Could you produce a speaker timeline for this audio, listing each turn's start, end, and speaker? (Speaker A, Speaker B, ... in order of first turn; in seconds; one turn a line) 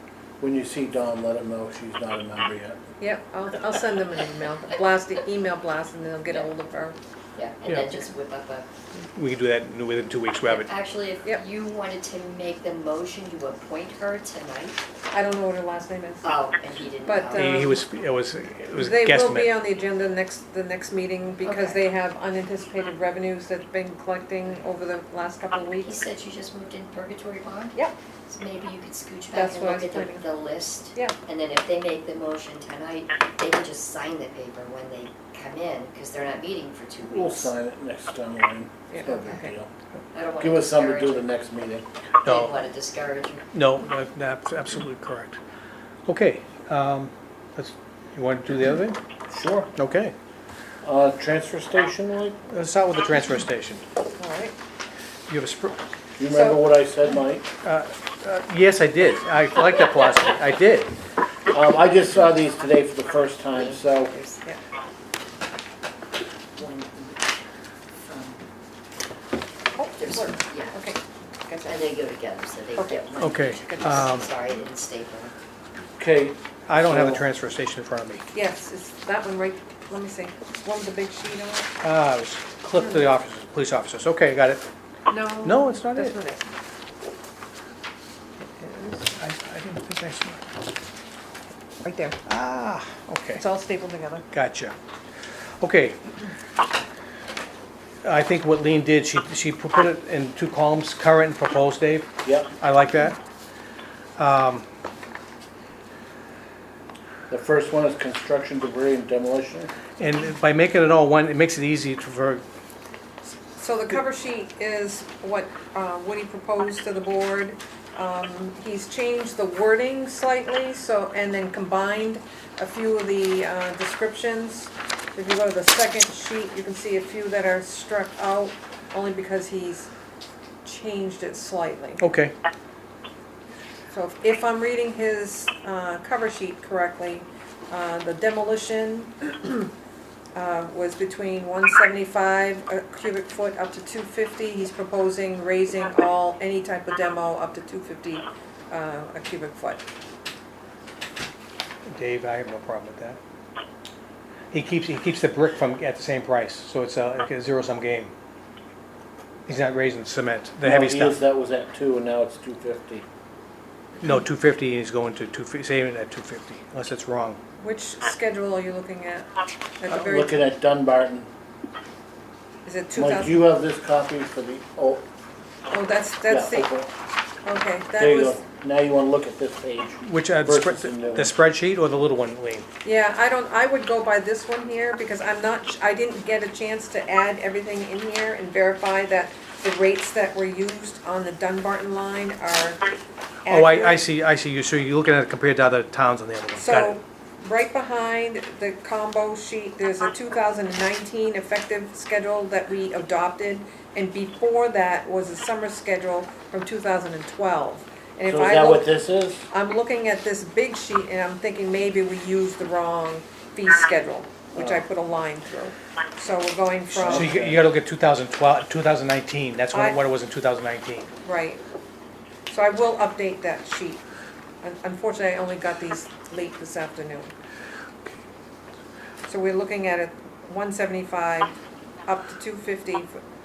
Speaker A: 0.4-2.8
Speaker B: 3.0-7.0
Speaker C: 7.3-8.7
Speaker D: 7.7-7.9
Speaker D: 9.1-10.7
Speaker C: 10.4-14.8
Speaker B: 15.1-16.3
Speaker C: 16.2-17.6
Speaker B: 17.0-17.8
Speaker D: 17.3-19.6
Speaker B: 18.8-26.0
Speaker C: 21.4-21.8
Speaker C: 25.8-27.7
Speaker C: 28.3-37.5
Speaker B: 29.3-30.2
Speaker A: 37.0-39.7
Speaker B: 38.9-39.5
Speaker C: 39.0-39.5
Speaker C: 40.1-41.3
Speaker A: 40.4-41.8
Speaker C: 42.2-43.5
Speaker D: 42.2-42.6
Speaker D: 43.5-45.4
Speaker D: 46.1-49.0
Speaker A: 49.3-49.7
Speaker D: 49.7-50.1
Speaker A: 50.8-52.4
Speaker D: 52.5-53.8
Speaker B: 54.2-54.5
Speaker D: 55.3-55.8
Speaker A: 56.2-57.5
Speaker B: 56.3-56.7
Speaker D: 57.6-60.9
Speaker A: 61.5-64.1
Speaker C: 63.5-64.4
Speaker C: 66.6-67.2
Speaker C: 68.1-68.4
Speaker B: 69.7-71.8
Speaker C: 70.0-70.8
Speaker C: 71.6-75.3
Speaker B: 72.8-74.2
Speaker D: 73.2-74.3
Speaker A: 76.0-77.2
Speaker D: 76.7-78.2
Speaker B: 78.3-81.7
Speaker D: 81.8-84.6
Speaker B: 82.8-83.0
Speaker B: 85.1-86.4
Speaker D: 85.4-86.2
Speaker B: 88.6-89.0
Speaker D: 89.1-90.5
Speaker B: 91.8-92.2
Speaker D: 92.2-93.4
Speaker B: 93.4-94.2
Speaker D: 94.3-94.7
Speaker D: 95.6-96.0
Speaker D: 98.0-103.2
Speaker A: 102.2-102.5
Speaker D: 104.2-104.6
Speaker A: 107.3-109.7
Speaker D: 110.0-112.4
Speaker B: 113.6-129.9
Speaker B: 130.6-132.0
Speaker D: 132.0-132.3
Speaker B: 133.9-139.7
Speaker B: 140.3-149.8
Speaker D: 151.9-153.2
Speaker D: 154.5-158.1
Speaker D: 159.5-161.2
Speaker A: 160.6-163.0
Speaker D: 164.0-167.4
Speaker B: 167.6-169.3
Speaker B: 169.8-170.3
Speaker A: 169.9-171.3
Speaker B: 172.6-173.3
Speaker A: 172.9-175.0
Speaker B: 175.7-176.7
Speaker A: 176.3-176.9
Speaker B: 177.4-178.4
Speaker A: 178.0-181.3
Speaker D: 180.0-182.7
Speaker B: 182.8-192.9
Speaker B: 193.4-194.1
Speaker D: 193.5-197.0
Speaker B: 196.6-217.3
Speaker A: 208.2-209.4
Speaker A: 214.6-214.8
Speaker A: 216.9-217.6
Speaker D: 217.1-221.1
Speaker B: 219.7-220.0
Speaker B: 221.2-221.6
Speaker B: 222.5-224.0
Speaker B: 224.6-227.3
Speaker B: 229.2-233.2